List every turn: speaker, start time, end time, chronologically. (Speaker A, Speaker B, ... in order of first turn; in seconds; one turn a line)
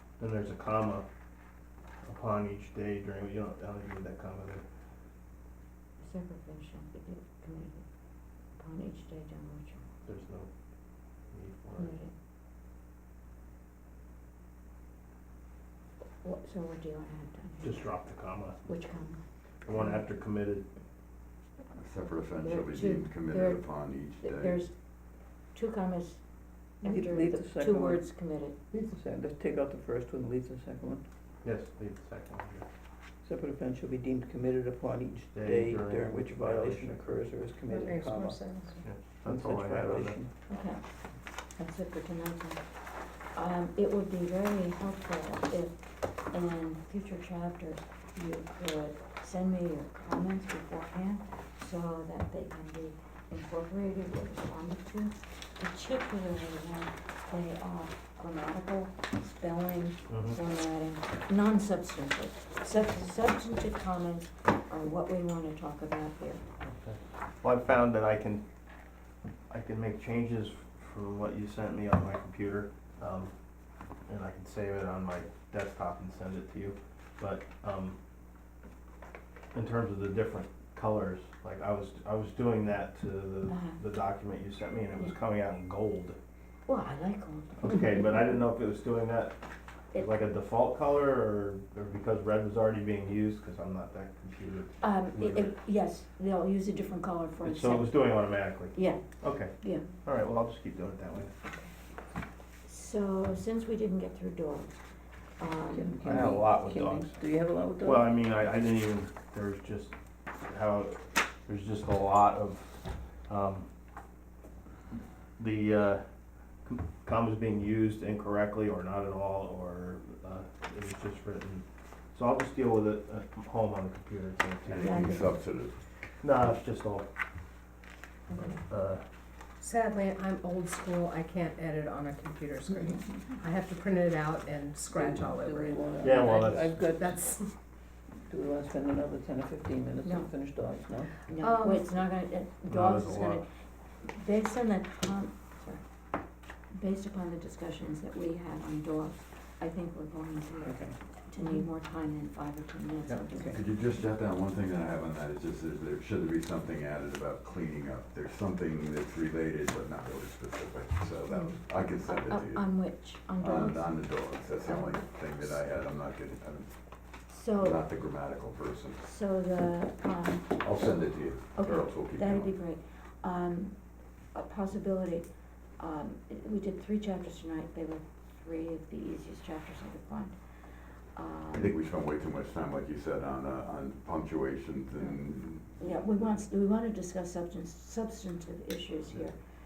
Speaker A: 0.2-1.1
Speaker A: 2.0-4.6
Speaker B: 6.0-7.8
Speaker B: 8.5-9.8
Speaker A: 10.0-10.5
Speaker A: 11.3-12.0
Speaker B: 11.7-12.1
Speaker B: 16.2-17.9
Speaker A: 17.6-18.6
Speaker B: 18.6-19.2
Speaker A: 19.6-20.6
Speaker C: 21.7-24.6
Speaker B: 22.4-24.8
Speaker B: 25.5-26.3
Speaker B: 26.8-28.6
Speaker D: 26.8-28.1
Speaker D: 28.7-31.0
Speaker A: 31.4-32.6
Speaker D: 33.2-38.6
Speaker A: 35.3-37.2
Speaker E: 37.7-38.9
Speaker A: 38.8-40.2
Speaker D: 39.2-40.3
Speaker B: 40.5-40.9
Speaker B: 41.5-42.6
Speaker B: 43.3-66.4
Speaker A: 60.1-60.4
Speaker A: 66.6-68.4
Speaker A: 69.5-73.3
Speaker A: 74.1-78.0
Speaker A: 79.5-86.2
Speaker B: 83.5-83.8
Speaker B: 86.7-87.6
Speaker A: 87.6-89.3
Speaker A: 89.9-95.5
Speaker B: 94.8-99.9
Speaker A: 97.4-101.3
Speaker B: 102.6-104.7
Speaker B: 105.4-106.3
Speaker D: 105.7-108.1
Speaker A: 106.0-107.2
Speaker A: 107.8-109.9
Speaker A: 110.5-112.7
Speaker A: 113.3-113.7
Speaker A: 115.4-116.0
Speaker A: 116.6-125.0
Speaker C: 124.7-125.8
Speaker B: 124.8-125.4
Speaker A: 126.2-127.1
Speaker A: 128.3-129.0
Speaker E: 129.6-137.5
Speaker B: 132.7-133.0
Speaker D: 134.9-137.2
Speaker A: 136.0-136.8
Speaker D: 138.3-141.1
Speaker B: 140.0-140.3
Speaker B: 141.2-143.5
Speaker E: 141.4-141.9
Speaker A: 142.7-143.4
Speaker B: 144.0-145.8
Speaker B: 146.7-153.6
Speaker D: 150.6-150.9
Speaker E: 151.4-151.7
Speaker D: 153.3-153.6
Speaker C: 153.5-166.7
Speaker B: 162.1-165.6
Speaker B: 167.3-167.9
Speaker C: 167.6-169.0
Speaker B: 169.0-170.8
Speaker C: 170.6-172.5
Speaker B: 171.5-173.8
Speaker B: 174.3-180.3
Speaker B: 181.1-181.7
Speaker C: 181.5-186.2
Speaker B: 185.7-189.4